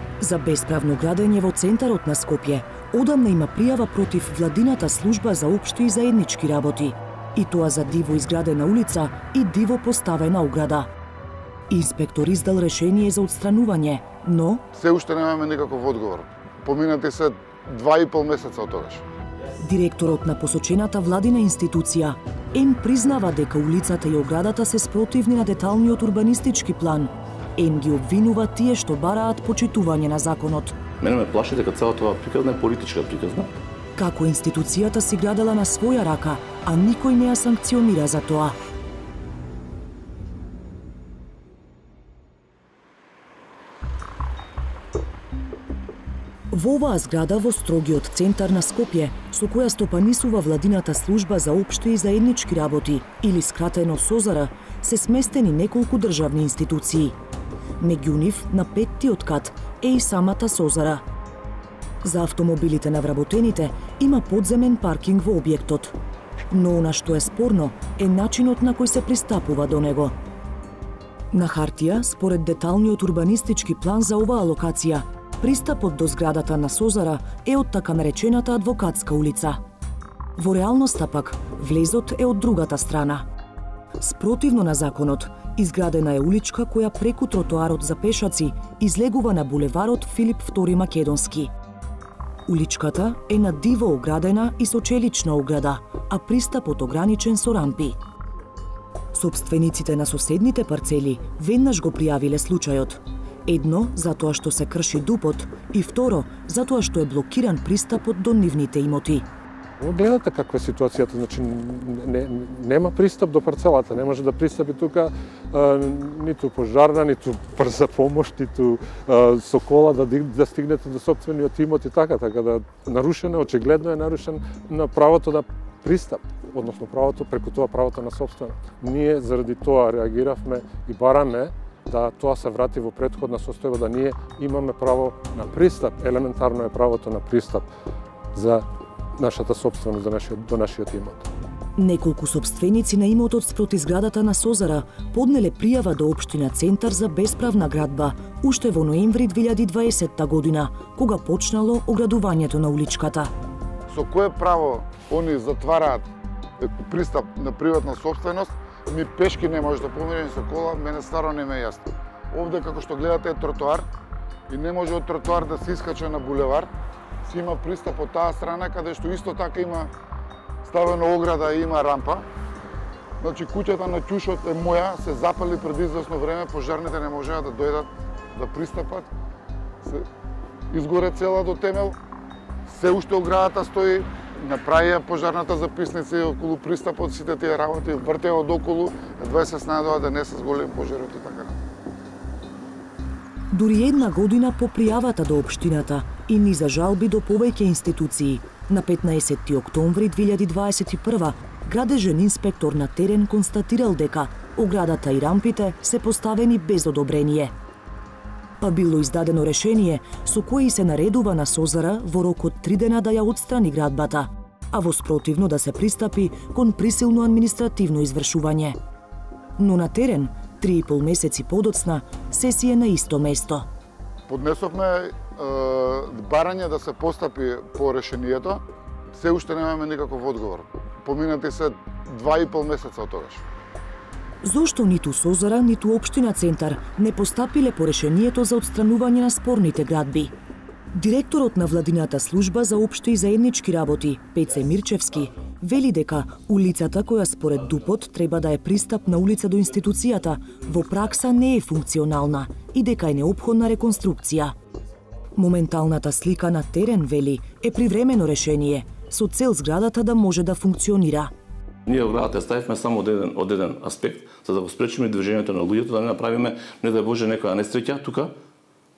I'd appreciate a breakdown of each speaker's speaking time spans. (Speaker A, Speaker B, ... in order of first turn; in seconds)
Speaker A: 0.2-10.9, 11.7-14.6, 19.6-30.8, 34.0-38.6, 46.5-57.1, 57.8-61.0, 62.0-65.9, 66.5-70.1, 71.3-79.6, 80.4-83.2, 84.0-91.5, 92.5-98.0, 99.1-109.3, 141.8-153.3, 193.5-207.5, 208.6-218.8, 219.6-223.7, 234.4-240.3, 240.9-254.5, 255.3-261.3
Speaker B: 14.7-19.0, 153.9-156.1, 156.6-163.9, 164.5-166.7, 167.3-169.9, 170.7-172.3, 173.2-179.1, 180.7-182.0, 182.7-191.6, 224.3-228.6, 229.1-233.4
Speaker C: 31.0-33.5, 261.9-268.3
Speaker D: 109.8-137.7, 138.3-138.7, 139.2-141.2